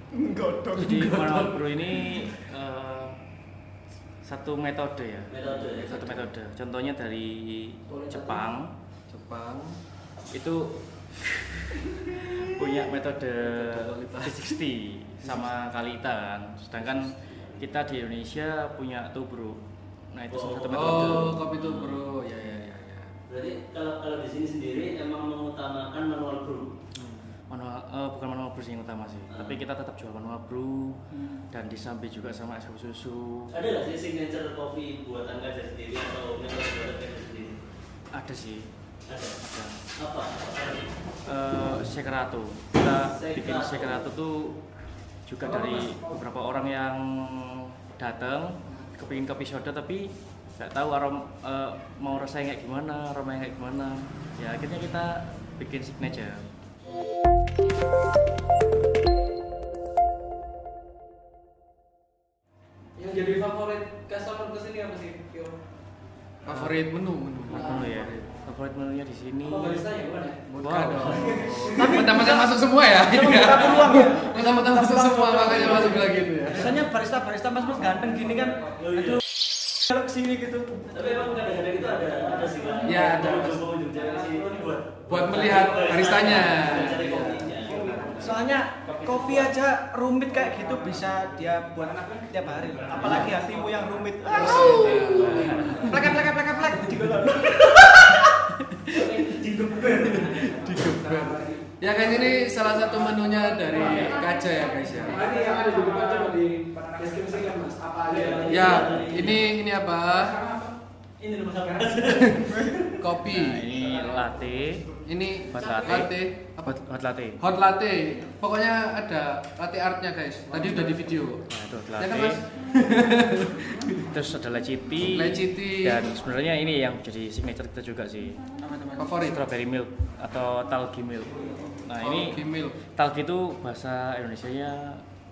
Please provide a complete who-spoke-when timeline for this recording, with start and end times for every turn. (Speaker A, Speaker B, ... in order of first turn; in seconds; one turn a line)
Speaker A: 0.1-1.1
Speaker B: 0.8-3.2
Speaker C: 0.8-2.2
Speaker B: 4.2-8.7
Speaker D: 5.3-6.0
Speaker C: 5.5-6.3
Speaker E: 7.9-8.5
Speaker C: 9.1-9.8
Speaker B: 10.3-19.6
Speaker C: 13.4-14.6
Speaker C: 15.2-15.5
Speaker B: 20.1-22.0
Speaker D: 20.3-21.4
Speaker C: 20.7-23.1
Speaker D: 23.3-26.7
Speaker C: 26.9-27.4
Speaker B: 27.5-31.0
Speaker D: 29.3-29.6
Speaker A: 31.1-31.4
Speaker B: 31.5-33.5
Speaker D: 33.5-37.6
Speaker B: 38.1-38.7
Speaker D: 39.1-39.4
Speaker B: 39.4-39.8
Speaker D: 40.0-40.9
Speaker B: 41.2-44.6
Speaker D: 42.8-44.1
Speaker B: 45.3-56.5
Speaker E: 45.4-46.2
Speaker E: 63.0-65.6
Speaker C: 66.5-68.3
Speaker B: 66.5-66.7
Speaker B: 67.5-69.8
Speaker E: 67.5-67.9
Speaker E: 69.5-70.4
Speaker C: 70.5-76.9
Speaker B: 70.6-71.4
Speaker E: 71.0-72.1
Speaker A: 71.7-79.2
Speaker D: 78.8-79.2
Speaker A: 79.9-81.1
Speaker D: 80.9-88.1
Speaker E: 82.5-83.3
Speaker C: 82.8-83.7
Speaker E: 83.9-84.7
Speaker C: 85.1-87.8
Speaker E: 87.6-88.4
Speaker A: 88.1-98.4
Speaker D: 88.9-89.5
Speaker E: 90.3-91.0
Speaker E: 91.8-92.3
Speaker E: 92.8-95.9
Speaker D: 92.9-93.6
Speaker B: 92.9-93.3
Speaker C: 94.3-97.1
Speaker D: 94.4-95.8
Speaker B: 95.0-95.9
Speaker C: 98.7-99.2
Speaker D: 98.9-100.5
Speaker C: 100.0-105.3
Speaker E: 100.7-101.6
Speaker E: 102.1-102.5
Speaker E: 103.7-104.2
Speaker E: 105.0-109.1
Speaker A: 105.2-107.5
Speaker D: 108.1-109.5
Speaker C: 108.5-110.4
Speaker D: 111.2-112.7
Speaker C: 112.0-113.8
Speaker A: 112.4-113.0
Speaker B: 113.2-114.9
Speaker C: 115.0-116.8
Speaker B: 115.5-117.4
Speaker E: 115.6-115.9
Speaker C: 117.4-124.1
Speaker B: 121.5-122.4
Speaker B: 124.1-128.4
Speaker C: 125.1-126.1
Speaker A: 128.6-129.1
Speaker C: 129.0-129.5
Speaker B: 129.2-132.4
Speaker C: 132.0-132.8
Speaker B: 132.9-135.0